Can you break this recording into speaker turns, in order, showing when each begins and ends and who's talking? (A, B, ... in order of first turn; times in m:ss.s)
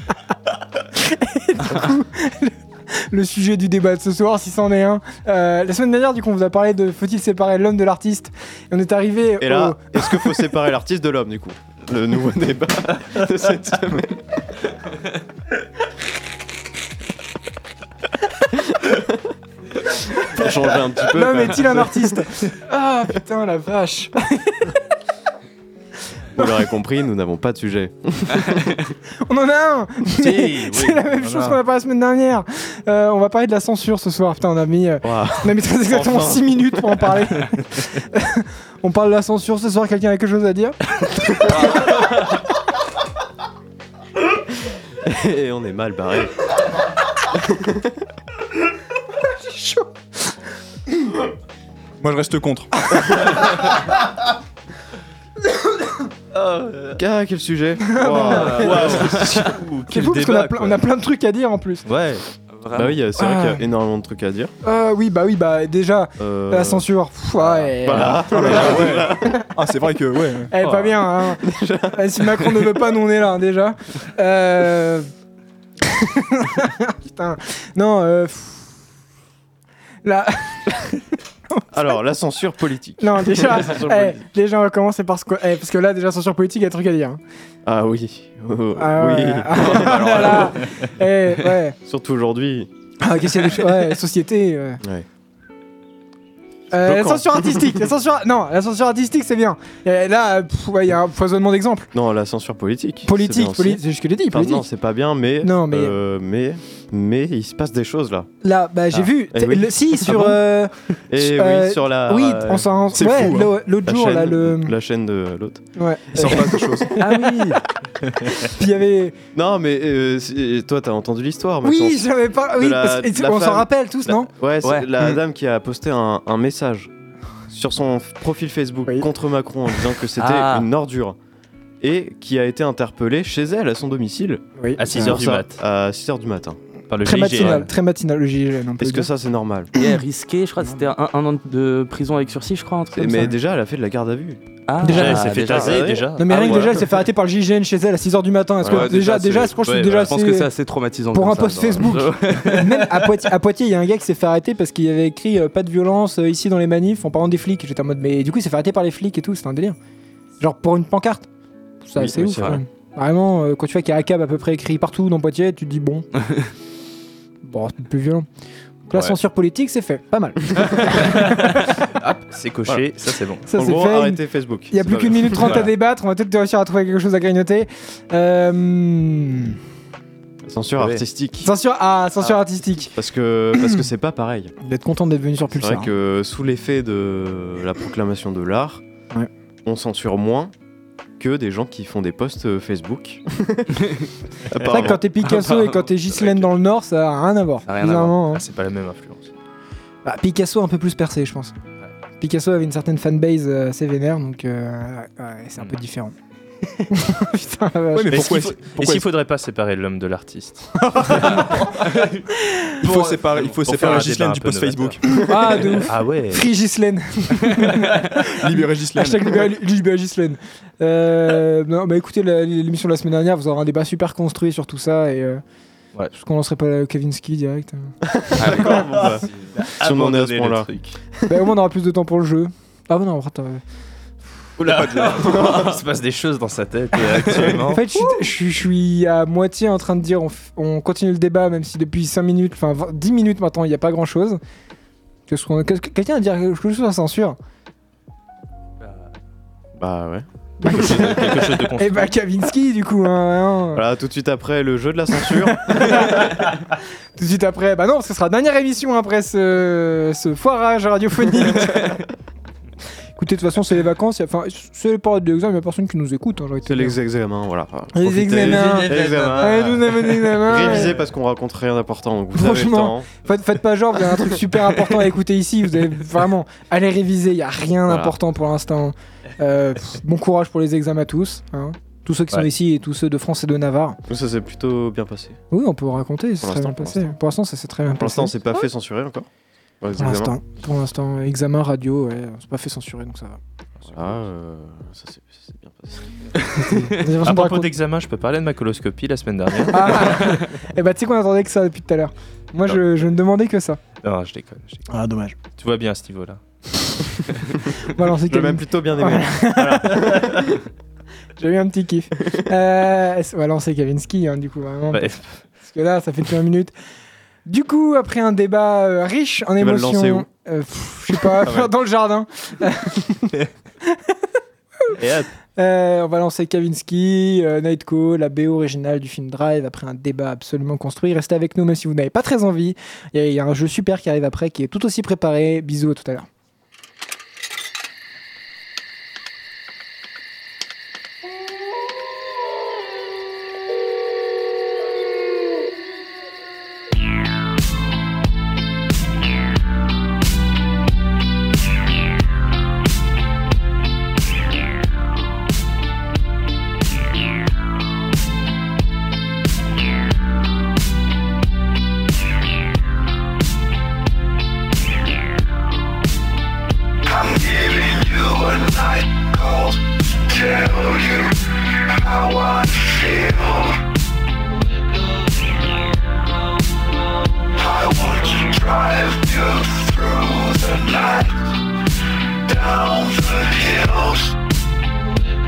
0:01.0-0:10.4 A
0:09.4-0:14.2 B
0:20.3-0:22.0 B
0:21.1-0:24.8 A
0:26.4-0:28.8 B
0:26.4-0:26.6 A
0:29.3-0:41.5 A
0:30.2-0:31.6 C
0:35.0-0:37.1 B
0:45.0-0:46.5 B
0:47.4-0:47.9 B
0:52.0-0:52.7 D
0:56.4-0:57.0 C
0:57.0-0:59.6 B
0:57.8-0:58.9 A
0:58.2-1:00.8 C
0:58.6-0:59.0 E
0:59.9-1:01.8 A
1:01.9-1:02.2 C
1:02.6-1:03.0 E
1:02.7-1:04.5 B
1:03.2-1:03.6 A
1:04.6-1:09.4 A
1:06.2-1:06.9 B
1:07.4-1:09.5 B
1:08.3-1:10.5 D
1:10.5-1:15.1 A
1:11.3-1:12.0 B
1:15.9-1:18.8 A
1:20.0-1:21.0 A
1:21.5-1:22.0 A
1:21.7-1:24.2 B
1:23.0-1:27.2 A
1:27.6-1:30.6 B
1:28.8-1:31.8 A
1:29.8-1:30.3 C
1:31.8-1:32.7 B
1:33.0-1:34.8 A
1:36.7-1:41.9 A
1:36.8-1:37.6 B
1:41.9-1:48.3 B
1:43.0-1:44.7 A
1:45.4-1:46.0 A
1:48.4-1:54.7 A
1:49.2-1:50.4 B
1:51.1-1:55.7 B
1:53.0-1:53.5 D
1:55.8-1:57.6 A
1:56.1-1:57.2 D
1:58.3-1:59.2 A
1:59.3-2:03.7 B
2:01.6-2:04.3 A
2:04.3-2:06.9 B
2:04.6-2:05.0 E
2:07.5-2:11.2 B
2:10.2-2:10.7 E
2:11.8-2:16.6 B
2:14.6-2:15.2 A
2:14.8-2:15.6 C
2:16.9-2:17.7 C
2:17.0-2:19.1 A
2:18.8-2:19.7 B
2:19.8-2:23.3 E
2:22.9-2:24.4 B
2:23.0-2:23.3 A
2:24.7-2:26.6 E
2:24.8-2:26.9 C
2:24.8-2:30.5 A
2:25.2-2:26.1 B
2:28.7-2:32.6 E
2:29.6-2:30.2 C
2:31.1-2:39.8 A
2:32.3-2:32.7 C
2:40.4-2:41.3 A
2:41.8-2:46.1 A
2:42.0-2:42.6 C
2:47.4-2:48.3 A
2:48.9-2:51.6 A
2:50.6-2:53.4 C
2:53.5-2:59.6 A
2:53.5-2:55.7 B
2:55.4-2:55.7 C
3:00.4-3:01.5 B
3:00.8-3:01.0 C
3:01.4-3:02.9 A
3:03.0-3:04.5 B
3:03.6-3:03.8 A
3:04.6-3:05.9 A
3:05.6-3:08.8 B
3:09.6-3:10.5 B
3:11.2-3:13.8 B
3:14.5-3:15.0 B
3:14.6-3:18.4 A
3:14.9-3:16.5 C
3:17.7-3:19.3 C
3:20.0-3:21.6 A
3:22.2-3:26.2 A
3:26.9-3:28.5 A
3:27.9-3:29.1 D
3:28.1-3:32.2 C
3:30.8-3:31.6 A
3:32.4-3:32.7 A
3:32.8-3:35.8 D
3:32.8-3:36.5 C
3:35.1-3:45.4 A
3:37.5-3:37.9 C
3:38.3-3:39.5 D
3:46.2-3:47.9 A
3:48.1-3:49.3 B
3:48.4-3:51.0 C
3:49.8-3:50.7 B
3:51.3-3:53.6 A
3:54.6-3:57.8 C
3:54.6-3:55.7 B
3:57.0-4:04.4 A
4:05.3-4:07.4 A
4:09.8-4:10.2 B
4:10.6-4:13.8 A
4:10.7-4:12.1 C
4:13.7-4:16.3 B
4:15.5-4:16.5 A
4:17.2-4:22.0 A
4:23.2-4:27.0 A
4:26.7-4:33.1 B
4:27.9-4:31.0 A
4:28.4-4:29.4 C
4:32.4-4:44.0 A
4:37.9-4:38.2 B
4:44.1-4:45.4 B
4:45.5-4:48.4 A
4:46.4-4:47.2 B
4:48.0-4:49.3 B
4:49.8-4:50.4 B
4:50.0-4:53.4 A
4:53.9-4:56.4 B
4:56.6-4:57.7 A
4:56.8-5:00.4 C
4:59.7-5:03.8 A
5:04.0-5:04.9 C
5:04.9-5:05.4 A
5:05.6-5:06.4 C
5:07.1-5:07.6 C
5:07.9-5:10.1 A
5:08.3-5:10.6 B
5:11.4-5:15.1 A
5:14.9-5:15.4 C
5:15.6-5:16.7 A
5:17.4-5:23.3 A
5:19.6-5:20.3 B
5:21.2-5:21.7 B
5:25.0-5:25.3 C
5:25.6-5:36.3 A
6:07.0-6:13.8 F
6:17.6-6:21.6 F
6:22.4-6:24.4 F